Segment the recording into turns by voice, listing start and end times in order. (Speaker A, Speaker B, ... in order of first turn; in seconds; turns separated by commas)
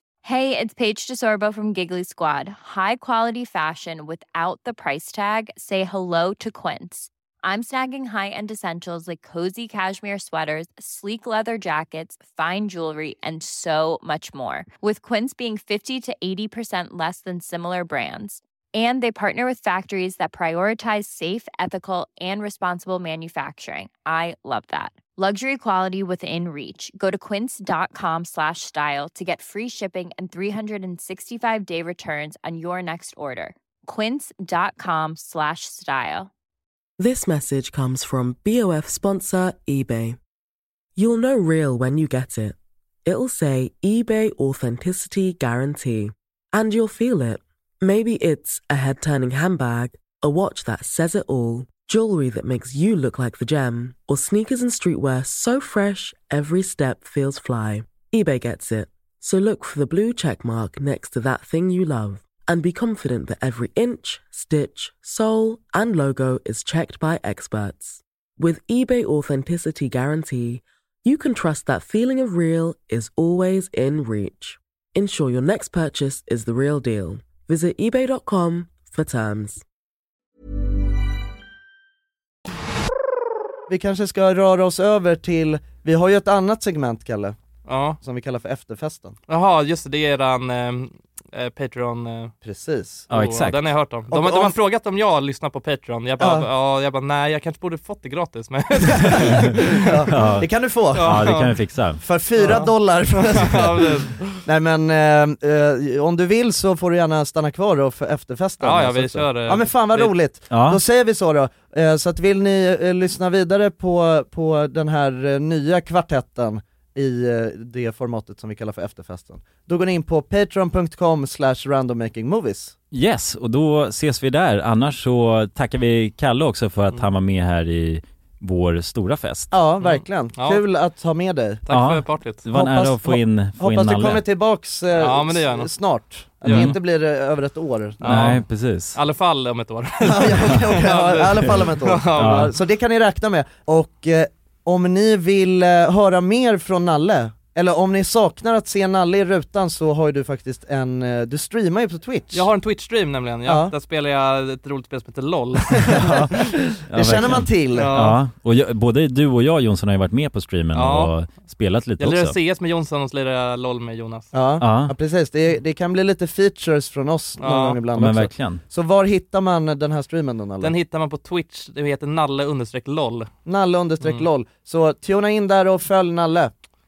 Speaker A: 0.2-36.3, Speaker B: 37.0-40.2, Speaker B: 41.0-79.6, Speaker C: 83.7-87.3, Speaker D: 87.6-88.0, Speaker C: 88.0-89.2, Speaker D: 89.3-92.3, Speaker C: 92.4-93.1, Speaker E: 93.1-93.7, Speaker D: 93.1-99.8, Speaker C: 94.1-94.5, Speaker C: 96.2-96.5, Speaker C: 99.0-101.3, Speaker E: 99.2-99.5, Speaker E: 100.1-102.0, Speaker D: 100.9-101.6, Speaker C: 102.0-122.7, Speaker D: 102.4-104.4, Speaker D: 108.6-110.1, Speaker E: 110.5-110.8, Speaker E: 122.9-129.5, Speaker C: 129.5-131.6, Speaker D: 129.8-130.6, Speaker D: 131.6-132.4, Speaker E: 131.7-134.2, Speaker C: 132.5-138.4, Speaker D: 135.0-135.7, Speaker D: 136.4-136.7, Speaker E: 136.4-136.8, Speaker D: 138.0-142.5, Speaker E: 138.0-139.0, Speaker C: 140.0-152.5, Speaker E: 142.1-142.5, Speaker D: 152.3-156.2, Speaker C: 153.4-153.7, Speaker C: 155.9-158.0, Speaker E: 156.0-156.3, Speaker E: 156.9-162.3, Speaker D: 157.7-158.2, Speaker D: 160.7-161.1, Speaker D: 162.0-164.3, Speaker C: 164.3-170.7, Speaker E: 164.6-164.9, Speaker D: 167.4-167.8, Speaker E: 167.9-168.6, Speaker D: 170.6-173.3, Speaker C: 173.4-176.5, Speaker D: 174.0-174.2